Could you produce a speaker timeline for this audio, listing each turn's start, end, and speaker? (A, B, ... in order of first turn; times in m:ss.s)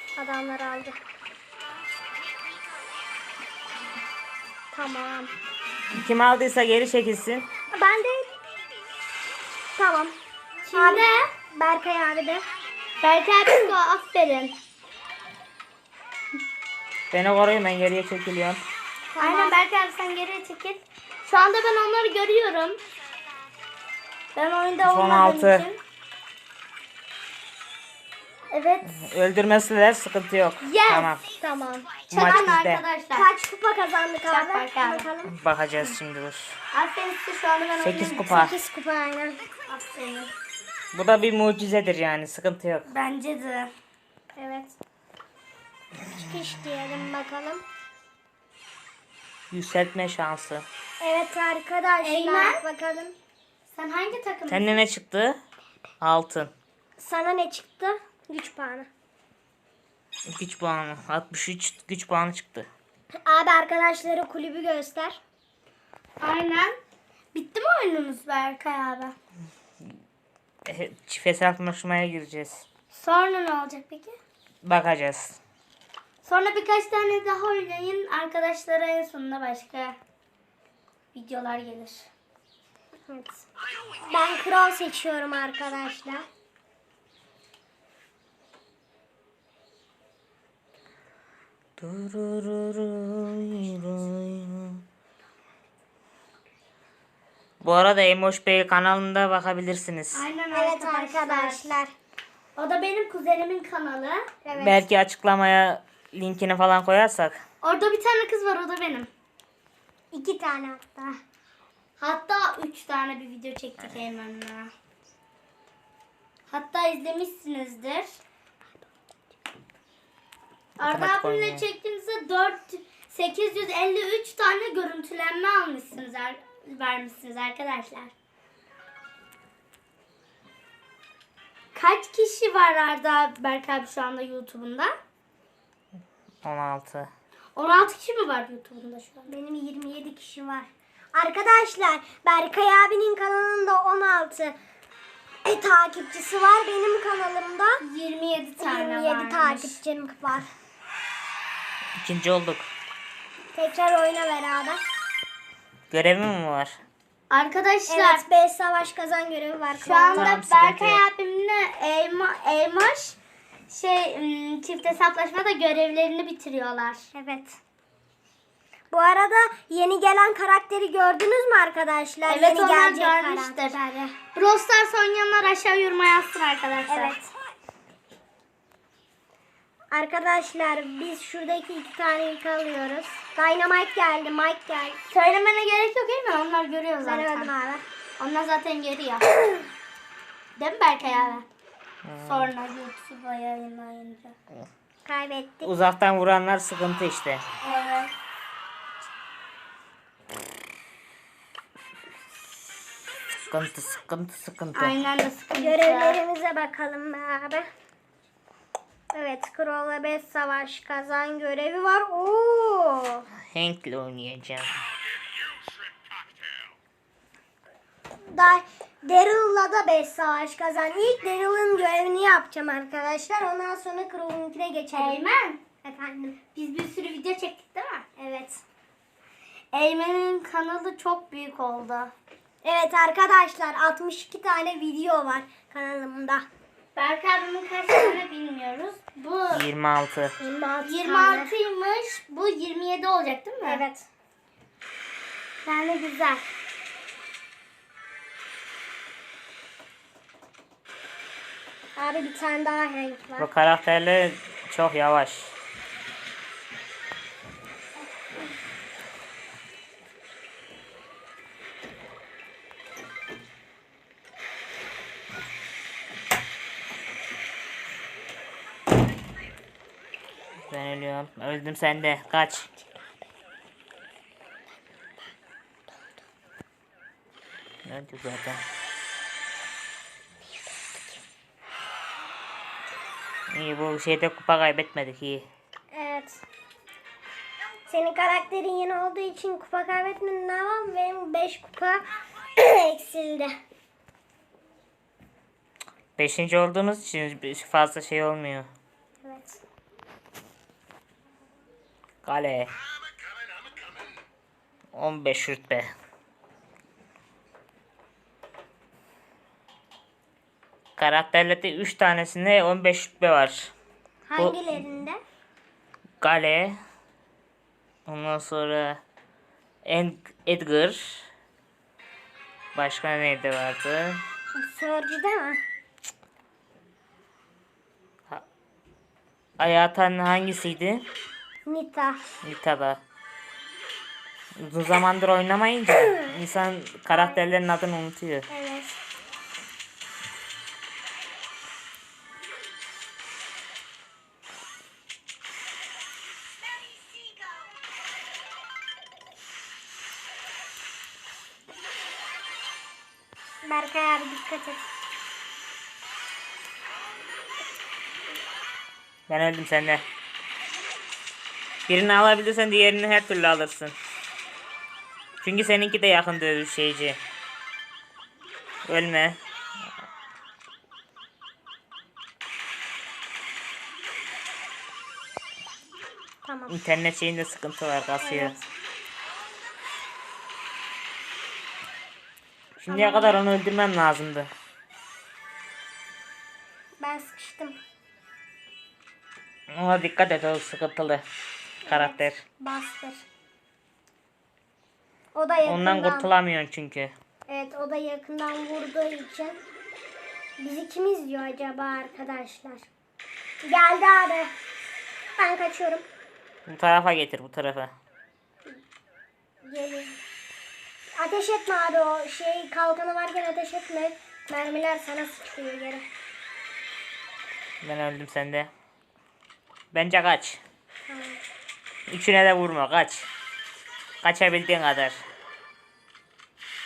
0:00.2-0:01.0 A
0:04.7-0:05.3 A
0:05.9-0:07.4 B
0:07.7-0:08.4 A
0:09.8-0:10.1 A
0:10.6-0:11.3 C
0:10.7-0:12.4 A
0:13.0-0:14.5 C
0:17.1-0:18.6 B
0:19.1-0:19.6 A
0:19.2-0:22.8 C
0:24.3-0:25.8 C
0:24.8-0:25.6 B
0:28.5-0:29.0 C
0:28.9-0:31.2 B
0:30.6-0:31.1 C
0:31.4-0:32.0 A
0:32.1-0:32.8 B
0:32.1-0:33.3 C
0:33.2-0:35.3 A
0:34.3-0:35.1 C
0:35.3-0:36.5 B
0:36.7-0:38.4 C
0:37.8-0:38.6 B
0:38.2-0:39.4 A
0:39.7-0:40.3 C
0:40.9-0:42.9 B
0:42.9-0:43.7 C
0:44.4-0:44.7 A
0:46.0-0:47.6 A
0:49.5-0:50.6 B
0:51.0-0:53.1 A
0:52.0-0:52.6 C
0:53.7-0:54.8 C
0:54.5-0:55.4 B
0:56.0-0:56.5 B
0:57.0-0:58.9 A
1:00.3-1:02.7 B
1:03.2-1:05.2 A
1:06.2-1:06.8 C
1:07.3-1:09.1 C
1:10.7-1:12.6 B
1:12.9-1:14.2 C
1:14.6-1:15.4 B
1:16.2-1:20.0 C
1:21.1-1:22.1 C
1:23.1-1:23.4 A
1:24.0-1:26.2 A
1:31.8-1:34.8 B
1:37.6-1:40.2 B
1:40.1-1:41.7 C
1:40.5-1:41.9 A
1:42.6-1:44.2 C
1:44.4-1:44.8 A
1:44.5-1:47.4 B
1:47.6-1:49.1 C
1:50.1-1:51.2 A
1:52.0-1:54.7 C
1:56.5-1:58.2 C
2:00.8-2:08.1 C
2:00.9-2:01.6 B
2:11.7-2:14.9 C
2:16.4-2:17.1 B
2:17.6-2:19.3 C
2:19.3-2:24.5 A
2:25.4-2:27.8 A
2:27.8-2:29.8 C
2:28.6-2:30.5 A
2:32.0-2:32.7 B
2:33.5-2:34.8 A
2:35.9-2:36.8 B
2:37.3-2:38.2 C
2:37.9-2:40.3 A
2:39.8-2:43.2 C
2:40.1-2:41.0 B
2:43.7-2:47.1 C
2:47.1-2:47.6 A
2:48.9-2:54.2 A
2:52.2-2:53.8 C
2:54.3-2:57.2 C
2:56.9-2:57.3 A
2:59.9-3:05.0 A
3:05.1-3:07.5 C
3:07.0-3:07.8 A
3:08.2-3:09.2 C
3:10.6-3:11.4 C
3:12.0-3:12.5 B
3:12.2-3:14.4 C
3:15.0-3:15.7 A
3:15.6-3:17.4 B
3:17.6-3:18.1 C
3:23.5-3:25.0 B
3:24.7-3:26.2 C
3:25.6-3:27.6 A
3:29.1-3:33.2 A
3:33.5-3:34.7 B
3:38.3-3:45.2 A
3:44.9-3:45.6 C
3:45.8-3:46.4 A
3:46.5-3:48.0 C
3:48.2-3:48.6 A
3:49.7-3:52.1 C
3:52.6-3:56.4 A
3:57.0-3:59.6 C
3:59.5-4:00.3 B
4:00.4-4:01.5 A
4:00.8-4:03.8 C
4:03.6-4:04.0 A
4:05.6-4:06.5 C
4:12.0-4:13.5 A
4:13.4-4:15.5 B
4:30.7-4:32.7 B
4:37.8-4:38.6 B
4:40.4-4:41.2 A
4:43.5-4:45.4 B
4:45.9-4:46.4 A
4:47.9-4:52.0 A
4:52.6-4:53.5 A
4:56.2-4:58.7 B
4:59.2-4:59.6 A
5:02.2-5:02.7 B
5:04.9-5:05.9 B
5:11.0-5:13.7 B
5:14.3-5:15.2 A
5:16.2-5:16.8 B
5:18.0-5:19.0 B
5:19.8-5:21.2 B
5:22.7-5:24.2 B
5:24.5-5:25.6 A
5:29.6-5:31.0 B
5:31.6-5:32.2 A
5:32.4-5:33.0 B
5:34.6-5:38.4 B
5:37.1-5:37.4 A
5:38.5-5:39.0 A
5:53.6-5:54.8 A
5:59.3-6:00.0 B
6:01.9-6:03.9 B
6:05.4-6:07.2 B
6:08.9-6:09.4 B
6:16.4-6:16.7 A
6:16.7-6:18.6 B
6:18.2-6:18.6 A
6:22.8-6:24.5 B
6:22.9-6:23.4 A
6:27.0-6:27.8 A
6:29.7-6:31.2 B
6:31.8-6:32.4 B
6:31.8-6:33.2 A
6:35.3-6:36.3 A
6:35.6-6:37.1 B
6:37.5-6:39.6 A
6:40.6-6:42.9 A
6:43.6-6:44.5 A
6:45.4-6:46.0 A
6:46.7-6:47.9 B
6:49.6-6:50.2 A
6:51.2-6:56.0 A
6:57.8-6:58.7 B
6:59.9-7:00.6 B
7:01.1-7:01.4 A
7:02.1-7:03.3 B
7:04.2-7:05.2 B